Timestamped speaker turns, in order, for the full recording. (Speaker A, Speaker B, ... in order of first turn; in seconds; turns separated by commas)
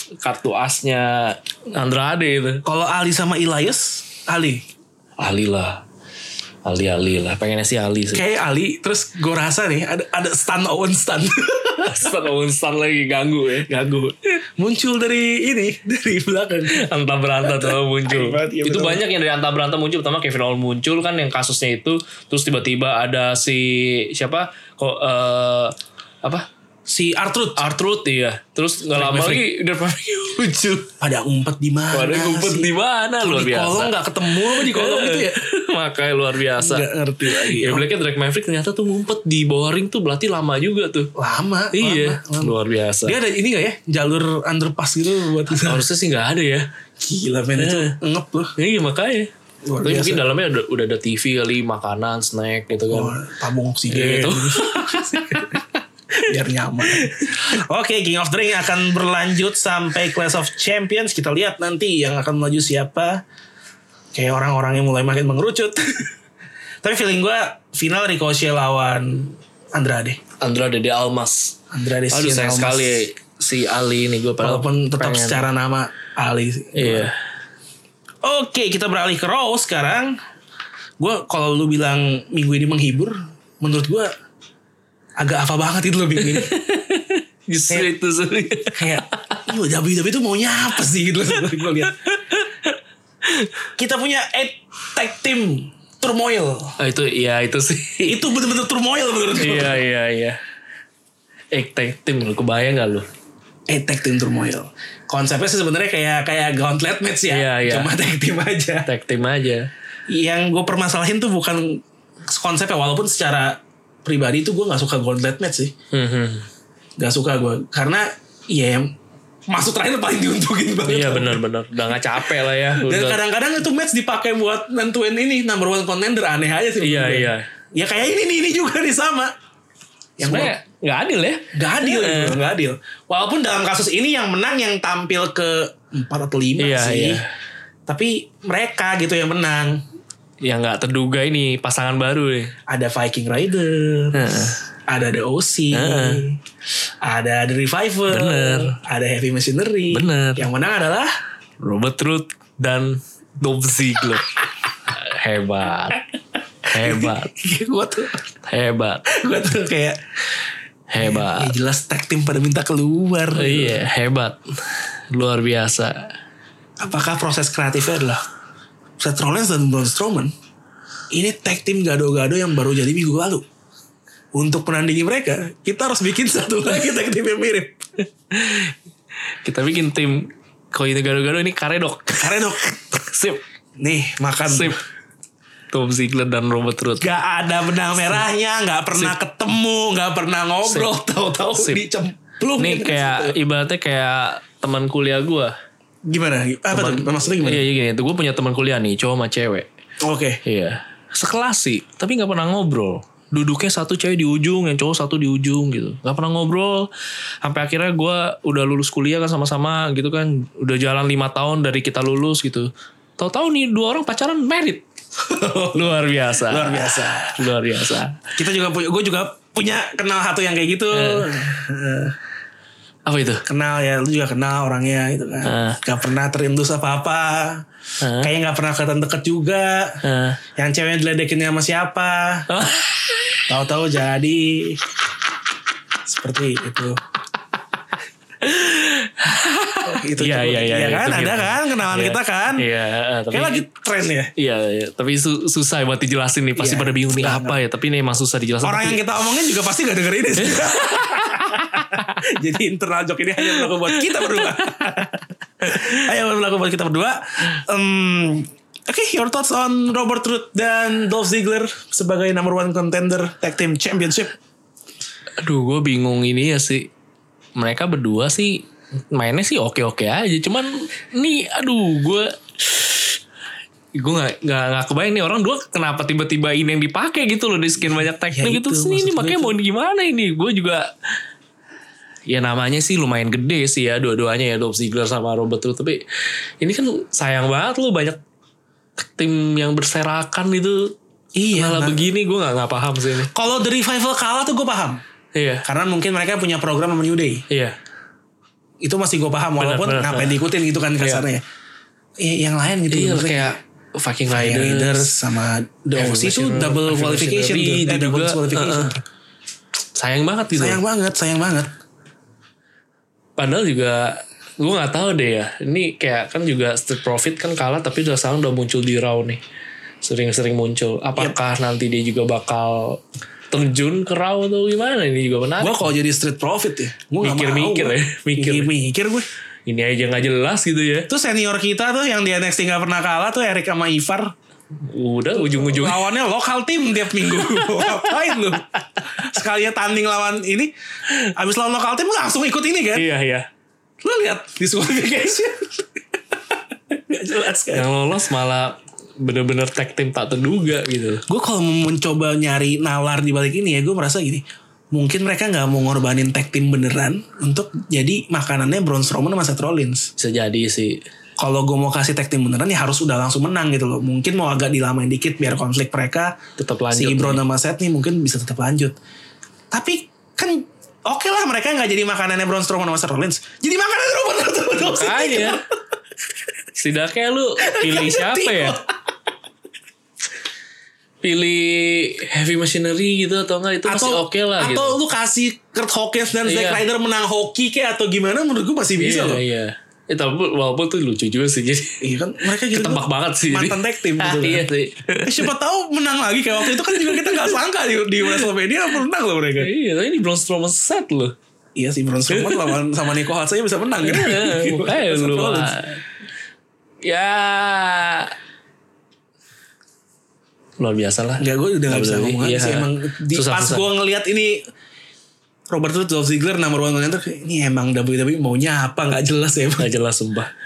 Speaker A: 0.2-2.6, Speaker B: 2.6-4.6, Speaker A: 5.2-5.8, Speaker A: 6.6-8.2, Speaker B: 8.1-12.0, Speaker A: 11.8-13.7, Speaker B: 13.7-16.8, Speaker A: 16.7-26.5, Speaker B: 17.4-19.0, Speaker B: 26.9-27.6, Speaker A: 27.6-30.9, Speaker B: 28.9-29.4, Speaker B: 31.0-32.7, Speaker A: 31.9-41.1, Speaker B: 33.2-35.4, Speaker B: 36.6-37.9, Speaker B: 41.1-45.8, Speaker A: 41.7-43.2, Speaker A: 45.5-46.7, Speaker B: 47.0-48.5, Speaker A: 47.6-48.0, Speaker A: 48.6-49.3, Speaker B: 49.6-50.2, Speaker A: 49.8-53.2, Speaker B: 52.9-55.6, Speaker A: 53.9-55.6, Speaker B: 56.1-63.2, Speaker A: 56.8-57.4, Speaker B: 64.1-66.1, Speaker B: 66.8-70.2, Speaker A: 70.4-71.6, Speaker B: 71.7-73.1, Speaker A: 72.1-75.5, Speaker B: 74.4-77.1, Speaker A: 76.7-77.1, Speaker B: 78.2-80.2, Speaker B: 81.0-84.1, Speaker B: 85.2-86.5, Speaker A: 86.2-89.4, Speaker B: 88.7-92.0, Speaker A: 91.8-93.6, Speaker B: 93.8-96.8, Speaker A: 96.8-98.3, Speaker B: 98.0-99.8, Speaker A: 99.4-100.4, Speaker A: 101.5-103.1, Speaker B: 103.7-108.9, Speaker A: 107.3-107.9, Speaker A: 108.9-109.7, Speaker B: 110.1-115.7, Speaker A: 115.9-116.5, Speaker B: 117.0-118.9, Speaker B: 119.5-121.4, Speaker A: 120.9-123.2, Speaker B: 122.7-129.3, Speaker A: 126.8-127.5, Speaker B: 130.2-130.5, Speaker A: 130.2-132.4, Speaker B: 131.5-137.2, Speaker A: 136.6-137.3, Speaker B: 137.9-139.8, Speaker A: 140.4-142.5, Speaker B: 142.7-146.4, Speaker A: 144.1-144.6, Speaker A: 145.7-146.2, Speaker B: 147.0-151.1, Speaker A: 148.1-148.8, Speaker A: 149.9-150.4, Speaker A: 151.6-154.3, Speaker A: 154.9-156.0, Speaker A: 156.7-157.3, Speaker B: 156.7-158.2, Speaker A: 158.5-159.0, Speaker B: 159.1-160.0, Speaker A: 160.9-161.5, Speaker B: 161.0-163.8, Speaker A: 163.3-164.4, Speaker A: 165.1-166.1, Speaker B: 166.8-168.2, Speaker B: 169.0-170.3, Speaker B: 171.1-173.4, Speaker B: 174.3-177.8, Speaker A: 178.3-178.7, Speaker A: 179.4-183.4, Speaker B: 182.2-182.7, Speaker B: 183.8-184.8, Speaker A: 184.5-184.8, Speaker A: 185.7-187.1, Speaker B: 187.0-193.4, Speaker A: 190.6-190.9, Speaker A: 191.5-191.8, Speaker A: 192.6-195.5, Speaker B: 196.1-197.6, Speaker A: 196.7-199.7, Speaker B: 200.0-200.4, Speaker A: 200.4-206.9, Speaker A: 207.4-214.8, Speaker B: 215.3-215.8, Speaker A: 215.7-218.2, Speaker B: 216.4-217.5, Speaker B: 218.4-222.1, Speaker A: 220.9-221.5, Speaker A: 223.1-223.4, Speaker B: 223.5-227.6, Speaker A: 225.4-225.8, Speaker A: 228.0-228.3, Speaker B: 228.2-230.0, Speaker A: 230.0-230.4, Speaker B: 230.6-232.5, Speaker A: 232.5-233.5, Speaker B: 233.5-234.8, Speaker B: 236.1-237.0, Speaker A: 238.4-243.6, Speaker B: 239.8-242.7, Speaker B: 243.3-244.3, Speaker A: 244.3-249.0, Speaker B: 246.6-247.6, Speaker B: 248.6-264.3, Speaker A: 250.4-252.2, Speaker A: 253.4-254.8, Speaker A: 255.6-256.0, Speaker A: 265.4-266.9, Speaker A: 267.6-273.2, Speaker A: 273.9-280.9, Speaker B: 277.8-279.6, Speaker A: 282.2-286.0, Speaker A: 286.6-288.2, Speaker A: 289.0-290.9, Speaker B: 291.4-292.0, Speaker A: 291.5-293.3, Speaker B: 293.3-295.0, Speaker A: 295.3-295.6, Speaker B: 295.6-297.4, Speaker A: 297.5-297.8, Speaker B: 298.8-301.4, Speaker A: 299.6-300.4, Speaker A: 301.0-301.2, Speaker B: 302.2-303.5, Speaker A: 302.9-305.1, Speaker B: 304.3-309.0, Speaker A: 306.0-308.9, Speaker A: 309.9-310.8, Speaker B: 310.5-311.7, Speaker A: 313.4-319.4, Speaker A: 320.0-325.9, Speaker B: 325.6-329.3, Speaker A: 327.2-328.7, Speaker A: 329.6-331.1, Speaker B: 331.1-334.3, Speaker A: 334.8-336.1, Speaker B: 335.3-340.7, Speaker A: 337.2-339.0, Speaker B: 341.2-343.1, Speaker A: 342.9-343.5, Speaker B: 344.0-346.0, Speaker B: 346.9-347.9, Speaker A: 347.7-351.2, Speaker B: 351.3-360.1, Speaker A: 360.2-361.0, Speaker B: 361.4-366.4, Speaker A: 366.6-367.4, Speaker B: 366.9-368.9, Speaker B: 369.7-375.6, Speaker A: 374.8-375.6, Speaker A: 376.8-378.8, Speaker B: 377.6-378.9, Speaker A: 381.2-385.0, Speaker B: 383.9-389.4, Speaker A: 386.4-386.8, Speaker A: 389.0-392.0, Speaker B: 392.0-394.7, Speaker A: 392.7-395.5, Speaker B: 395.2-399.7, Speaker A: 396.6-397.6, Speaker A: 398.2-398.5, Speaker A: 399.6-401.3, Speaker B: 401.8-405.8, Speaker A: 402.3-402.8, Speaker A: 404.0-406.0, Speaker A: 407.0-408.3, Speaker A: 410.8-413.9, Speaker B: 411.4-414.6, Speaker B: 415.7-419.9, Speaker A: 419.8-420.5